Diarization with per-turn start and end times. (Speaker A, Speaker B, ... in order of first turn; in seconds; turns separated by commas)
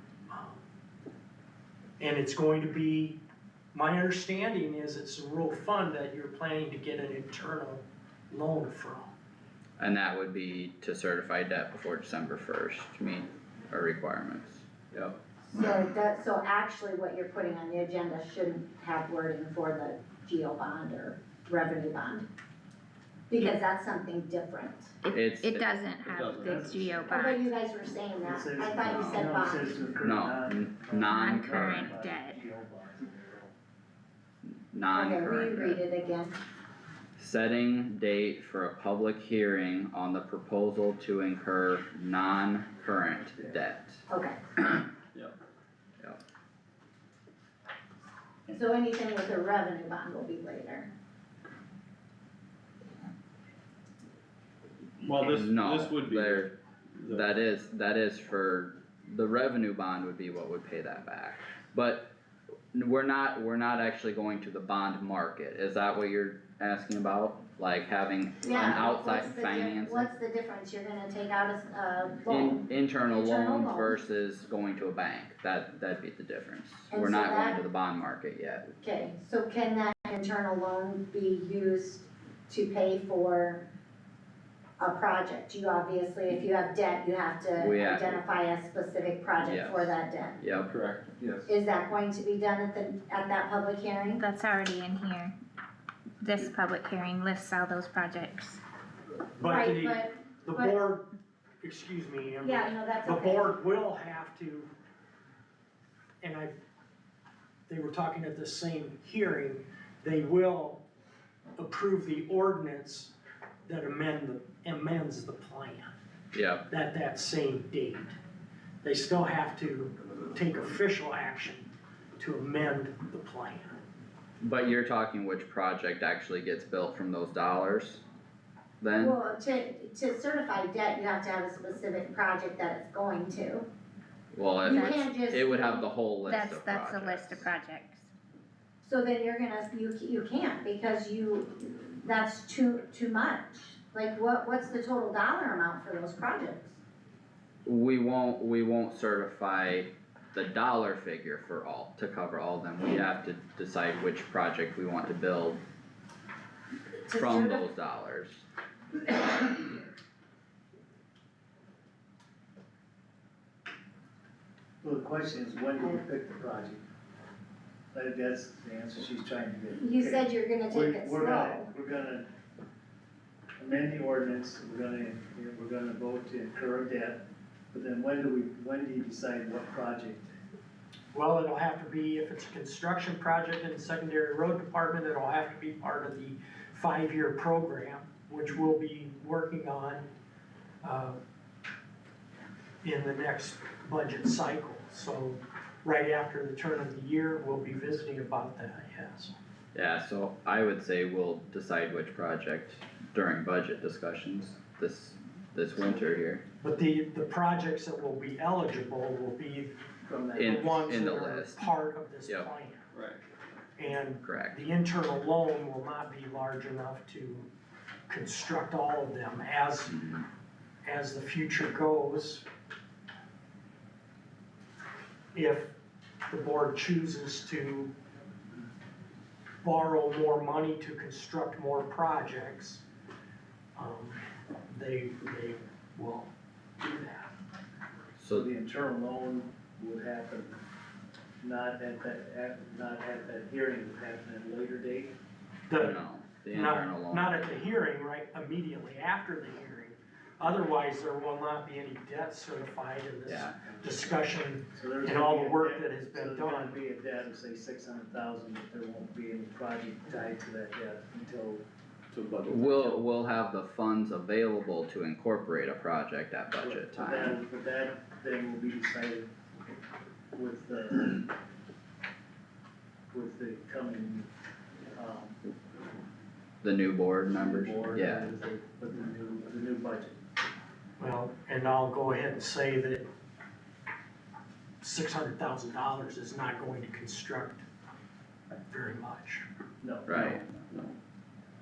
Speaker A: 0.3-0.6, Speaker A: 2.0-3.2, Speaker A: 3.7-9.1, Speaker B: 9.8-15.2, Speaker C: 15.5-22.2, Speaker C: 23.3-24.9, Speaker D: 25.0-27.5, Speaker B: 25.1-25.8, Speaker E: 26.1-27.0, Speaker F: 26.5-27.3, Speaker C: 27.1-29.8, Speaker F: 28.2-33.5, Speaker B: 28.8-29.3, Speaker B: 30.0-31.9, Speaker D: 31.1-32.4, Speaker B: 34.5-35.8, Speaker C: 34.9-36.3, Speaker B: 37.2-44.0, Speaker C: 44.1-44.4, Speaker C: 48.5-50.9, Speaker E: 55.0-57.3, Speaker B: 55.1-56.5, Speaker B: 57.0-62.1, Speaker B: 62.7-70.1, Speaker C: 68.4-74.0, Speaker B: 72.3-78.7, Speaker C: 76.9-77.6, Speaker C: 78.8-83.6, Speaker C: 84.8-90.4, Speaker B: 87.5-88.2, Speaker B: 89.4-90.7, Speaker E: 90.7-91.5, Speaker C: 91.5-94.2, Speaker D: 94.2-95.3, Speaker D: 96.2-98.6, Speaker A: 99.4-101.0, Speaker C: 99.4-100.8, Speaker A: 101.6-104.7, Speaker C: 102.4-103.5, Speaker A: 106.2-106.5, Speaker A: 107.7-110.8, Speaker A: 111.6-113.1, Speaker A: 113.7-115.9, Speaker B: 116.3-116.6, Speaker A: 116.7-118.2, Speaker A: 118.8-123.8, Speaker B: 124.4-128.0, Speaker B: 128.8-129.2, Speaker C: 129.0-133.7, Speaker B: 134.3-137.5, Speaker D: 134.7-135.1, Speaker C: 134.7-135.8, Speaker D: 136.2-138.1, Speaker C: 138.8-146.8, Speaker B: 147.6-155.6, Speaker C: 157.1-157.6, Speaker B: 157.1-158.4, Speaker F: 164.8-166.8, Speaker F: 167.9-172.3, Speaker C: 169.7-171.7, Speaker F: 173.6-177.2, Speaker F: 177.7-180.3, Speaker A: 181.1-190.1, Speaker A: 190.8-191.2, Speaker A: 192.8-199.3, Speaker B: 199.7-206.4, Speaker A: 206.6-209.8, Speaker F: 210.1-210.9, Speaker A: 210.3-212.8, Speaker B: 210.3-211.7, Speaker E: 212.9-213.2, Speaker A: 213.8-217.5, Speaker B: 214.2-214.6, Speaker A: 218.1-220.0, Speaker B: 219.9-220.2, Speaker A: 220.8-222.4, Speaker A: 225.3-225.7, Speaker A: 226.2-227.9, Speaker A: 229.6-232.8, Speaker A: 233.8-236.3, Speaker A: 236.8-237.3, Speaker B: 238.2-238.5, Speaker F: 238.3-240.6, Speaker F: 241.4-245.2, Speaker A: 245.7-245.9, Speaker B: 245.8-247.6, Speaker A: 246.5-256.8, Speaker B: 253.3-253.5, Speaker F: 254.7-261.6, Speaker E: 262.1-263.0, Speaker B: 262.4-267.4, Speaker F: 266.6-269.3, Speaker F: 270.3-271.3, Speaker F: 273.1-274.3, Speaker F: 274.9-275.4, Speaker B: 276.6-278.3, Speaker F: 277.3-280.1, Speaker A: 281.0-283.0, Speaker A: 284.8-287.6, Speaker A: 288.7-289.4, Speaker F: 289.8-290.2, Speaker B: 290.1-290.4